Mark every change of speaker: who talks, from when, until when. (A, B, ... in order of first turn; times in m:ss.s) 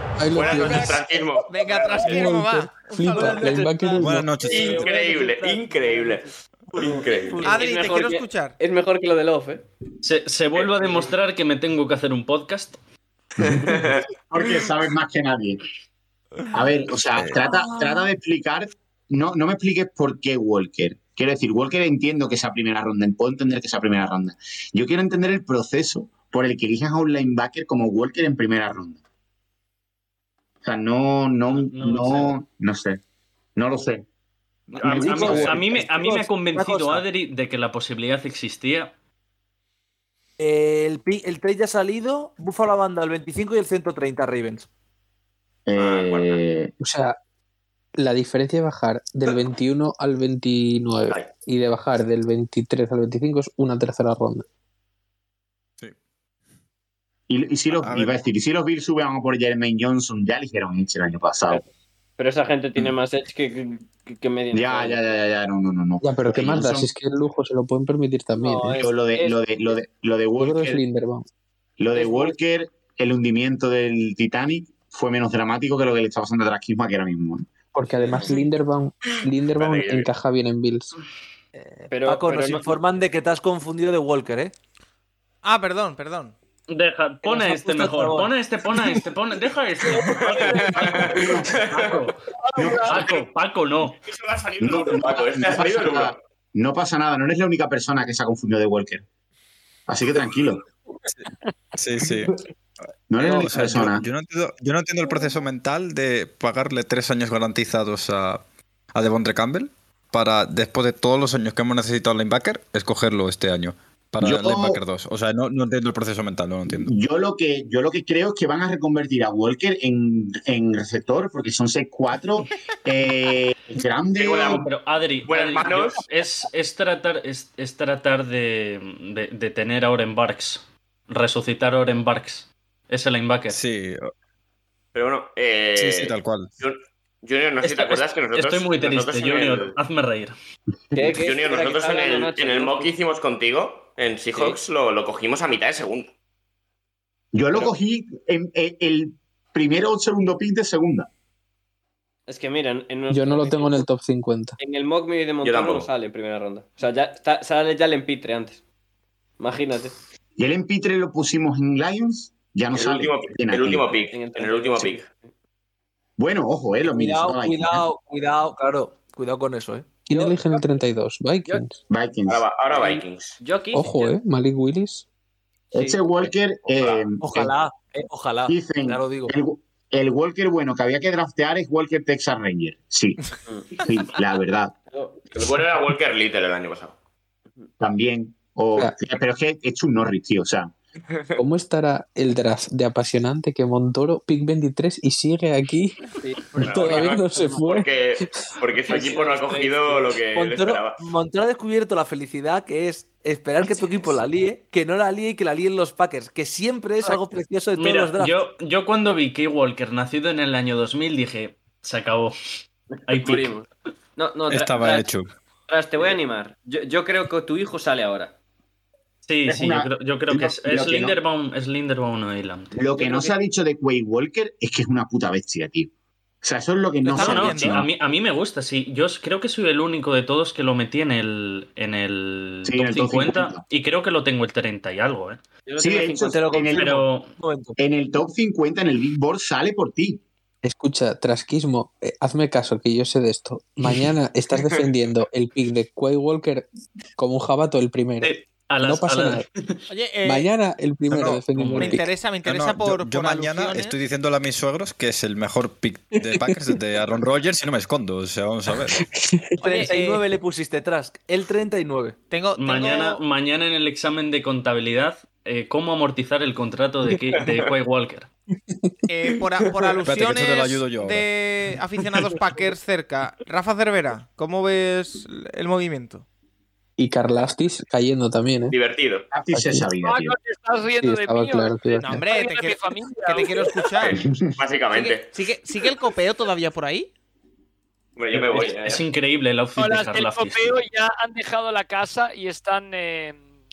0:00.2-0:01.0 A
0:00.3-0:02.3 B
0:00.5-0:05.5 C
0:02.0-0:04.4 A
0:04.0-0:04.8 D
0:04.4-0:07.4 B
0:04.5-0:06.0 E
0:06.8-0:09.6 E
0:07.4-0:08.5 C
0:10.0-0:12.8 F
0:10.6-0:11.0 B
0:13.4-0:15.6 G
0:13.6-0:14.0 B
0:16.5-0:29.0 G
0:17.2-0:17.4 D
0:30.6-0:33.0 G
0:31.5-0:32.4 F
0:33.6-0:34.0 G
0:34.7-0:35.9 G
0:34.8-0:38.9 F
0:34.8-0:37.0 H
0:35.2-0:35.6 D
0:40.4-0:44.7 H
0:45.7-0:46.7 G
0:45.8-0:46.4 B
0:46.8-0:47.2 A
0:48.0-0:54.4 A
0:57.3-1:01.6 G
0:57.8-0:58.2 D
1:02.2-1:05.1 E
1:04.5-1:06.9 G
1:06.0-1:08.8 A
1:08.4-1:09.4 E
1:08.7-1:10.8 G
1:10.4-1:11.2 A
1:11.8-1:17.5 G
1:11.9-1:12.4 E
1:17.7-1:20.9 A
1:19.1-1:20.1 B
1:21.5-1:24.5 H
1:21.9-1:22.7 E
1:25.4-1:26.3 C
1:26.7-1:32.2 F
1:27.2-1:29.0 H
1:30.3-1:32.1 B
1:30.4-1:30.7 I
1:30.9-1:31.5 G
1:32.4-1:33.0 I
1:32.6-1:33.0 G
1:32.8-1:34.0 F
1:34.0-1:36.2 B
1:34.6-1:39.0 G
1:39.9-1:40.6 G
1:41.8-1:42.4 D
1:43.1-1:44.0 G
1:43.2-1:48.4 D
1:48.9-1:56.9 D
1:54.2-1:54.8 G
1:56.7-2:04.6 G
2:04.2-2:13.6 F
2:04.2-2:04.6 B
2:05.2-2:06.0 B
2:13.5-2:14.1 D
2:14.9-2:19.8 B
2:15.8-2:16.5 D
2:17.6-2:20.3 F
2:20.9-2:22.9 E
2:21.1-2:26.1 B
2:27.3-2:31.1 G
2:32.3-2:33.8 E
2:33.1-2:34.6 A
2:34.6-2:38.6 E
2:35.4-2:35.9 B
2:39.4-2:40.0 E
2:40.4-2:43.8 G
2:42.7-2:45.0 B
2:44.1-2:45.3 E
2:46.2-2:47.8 G
2:46.8-2:50.2 H
2:50.0-2:51.8 A
2:51.9-2:52.4 G
2:52.3-2:53.4 B
2:52.7-2:54.2 E
2:53.7-2:55.0 A
2:55.7-2:56.0 E
2:55.7-2:57.5 G
2:57.2-2:59.3 H
2:58.5-3:03.2 G
3:03.8-3:04.7 G
3:04.9-3:05.2 E
3:05.3-3:07.0 B
3:07.8-3:10.7 G
3:11.1-3:11.4 B
3:11.4-3:16.0 A
3:16.2-3:17.9 E
3:16.5-3:18.4 A
3:16.6-3:21.0 B
3:18.8-3:20.2 E
3:18.9-3:19.2 H
3:20.3-3:28.4 H
3:27.8-3:32.3 F
3:33.1-3:33.5 F
3:33.1-3:35.1 E
3:34.5-3:35.3 D
3:35.7-3:38.3 E
3:39.2-3:42.7 F
3:39.5-3:41.2 G
3:42.7-3:45.9 G
3:42.9-3:43.3 E
3:46.4-3:47.8 G
3:47.0-3:47.8 C
3:47.1-3:55.4 F
3:52.6-3:53.6 G
3:55.6-3:56.8 E
3:55.8-3:57.0 G
3:56.2-3:57.8 H
3:56.8-3:57.3 F
3:57.8-4:00.2 G
4:00.6-4:06.6 A
4:04.6-4:04.9 B
4:07.2-4:09.4 A
4:08.2-4:09.8 F
4:09.9-4:10.5 C
4:10.2-4:12.1 A
4:11.1-4:11.4 D
4:11.6-4:12.0 F
4:11.8-4:14.0 C
4:12.4-4:19.0 D
4:16.3-4:16.7 A
4:19.0-4:19.8 A
4:19.6-4:20.2 C
4:19.6-4:22.2 H
4:22.3-4:23.2 C
4:22.6-4:28.3 F
4:27.3-4:27.7 B
4:29.1-4:36.2 C
4:30.0-4:31.3 D
4:37.0-4:38.8 A
4:38.7-4:39.3 B
4:39.3-4:40.4 G
4:39.5-4:39.9 A
4:40.0-4:44.0 I
4:41.0-4:42.2 A
4:42.0-4:44.2 C
4:44.0-4:45.3 B
4:44.1-4:44.5 G
4:44.9-4:47.1 C
4:48.2-4:49.0 B
4:48.3-4:50.8 F
4:49.8-4:53.4 I